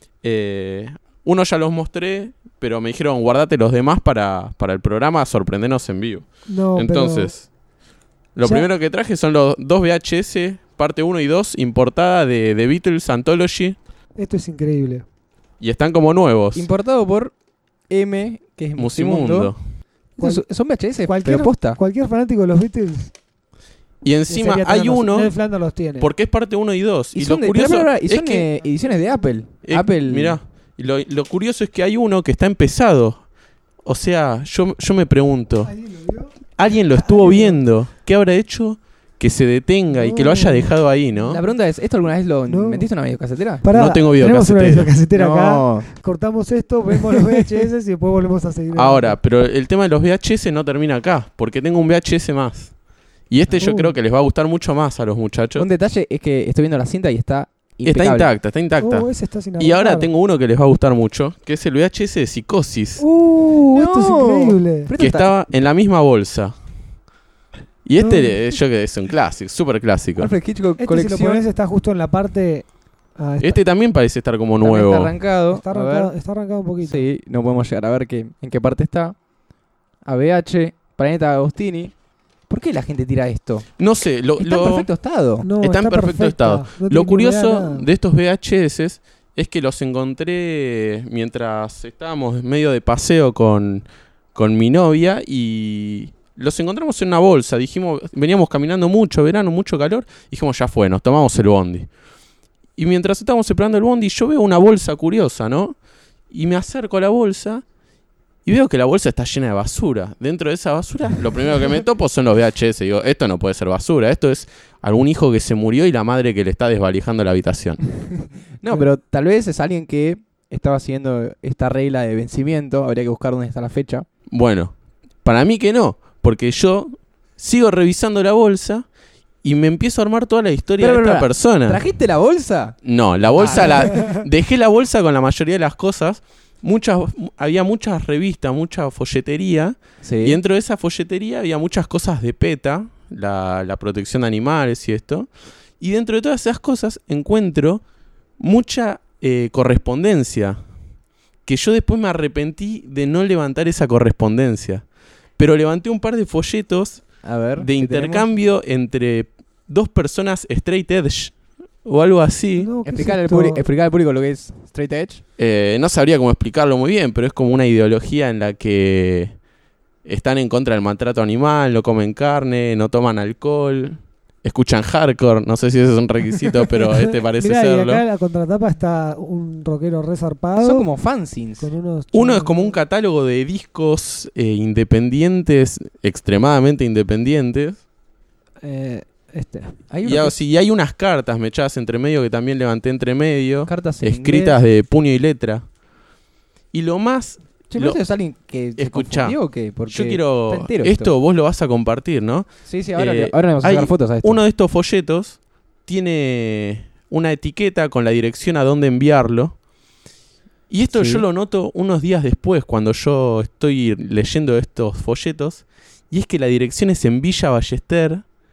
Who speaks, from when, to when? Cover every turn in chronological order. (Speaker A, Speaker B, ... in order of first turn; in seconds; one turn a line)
Speaker A: 0.2-7.5
Speaker B: 6.5-7.3
Speaker A: 8.3-13.8
Speaker B: 14.2-15.1
Speaker A: 15.6-16.7
Speaker C: 16.6-17.3
Speaker C: 17.9-19.5
Speaker A: 18.8-19.6
Speaker B: 20.2-20.4
Speaker C: 20.2-21.8
Speaker B: 21.1-23.1
Speaker A: 24.0-25.3
Speaker B: 24.3-26.1
Speaker A: 26.0-28.5
Speaker C: 27.1-30.4
Speaker A: 29.6-33.2
Speaker A: 33.9-35.8
Speaker B: 35.7-36.3
Speaker A: 36.6-41.4
Speaker B: 36.9-37.6
Speaker B: 39.9-40.7
Speaker C: 41.2-43.7
Speaker B: 42.5-42.9
Speaker B: 43.6-49.2
Speaker A: 43.7-44.9
Speaker C: 45.1-45.9
Speaker C: 47.1-47.7
Speaker A: 48.7-52.8
Speaker A: 53.3-55.7
Speaker B: 53.6-53.9
Speaker C: 55.6-58.3
Speaker A: 57.9-63.0
Speaker B: 58.8-60.1
Speaker B: 63.0-64.9
Speaker C: 63.2-65.3
Speaker A: 65.0-66.5
Speaker A: 67.8-70.3
Speaker B: 68.0-68.4
Speaker C: 70.2-71.4
Speaker B: 70.8-73.6
Speaker A: 73.4-75.1
Speaker C: 74.6-76.1
Speaker B: 75.5-77.0
Speaker C: 76.8-79.2
Speaker C: 80.0-81.9
Speaker C: 82.5-83.7
Speaker A: 83.8-84.9
Speaker C: 84.4-85.5
Speaker B: 85.4-87.9
Speaker A: 85.6-101.9
Speaker A: 102.8-105.8
Speaker A: 106.3-107.6
Speaker A: 108.5-117.8
Speaker C: 118.6-124.1
Speaker A: 124.3-128.9
Speaker A: 129.4-131.8
Speaker C: 130.8-132.8
Speaker A: 132.8-145.3
Speaker C: 133.3-134.0
Speaker B: 133.9-134.2
Speaker C: 140.0-140.4
Speaker A: 145.8-147.8
Speaker A: 148.4-150.6
Speaker A: 151.4-154.8
Speaker A: 155.4-157.1
Speaker C: 157.2-158.2
Speaker A: 157.6-162.7
Speaker B: 162.6-163.6
Speaker C: 162.8-165.2
Speaker A: 165.4-169.3
Speaker A: 170.1-178.0
Speaker B: 177.4-180.9
Speaker C: 180.6-181.7
Speaker B: 181.6-182.8
Speaker A: 182.1-187.8
Speaker B: 188.6-189.8
Speaker C: 189.9-190.4
Speaker A: 190.0-195.6
Speaker C: 193.7-194.6
Speaker A: 196.7-198.0
Speaker C: 197.7-201.1
Speaker A: 198.8-199.4
Speaker A: 199.9-209.6
Speaker C: 202.7-204.4
Speaker A: 210.7-218.2
Speaker C: 210.9-211.3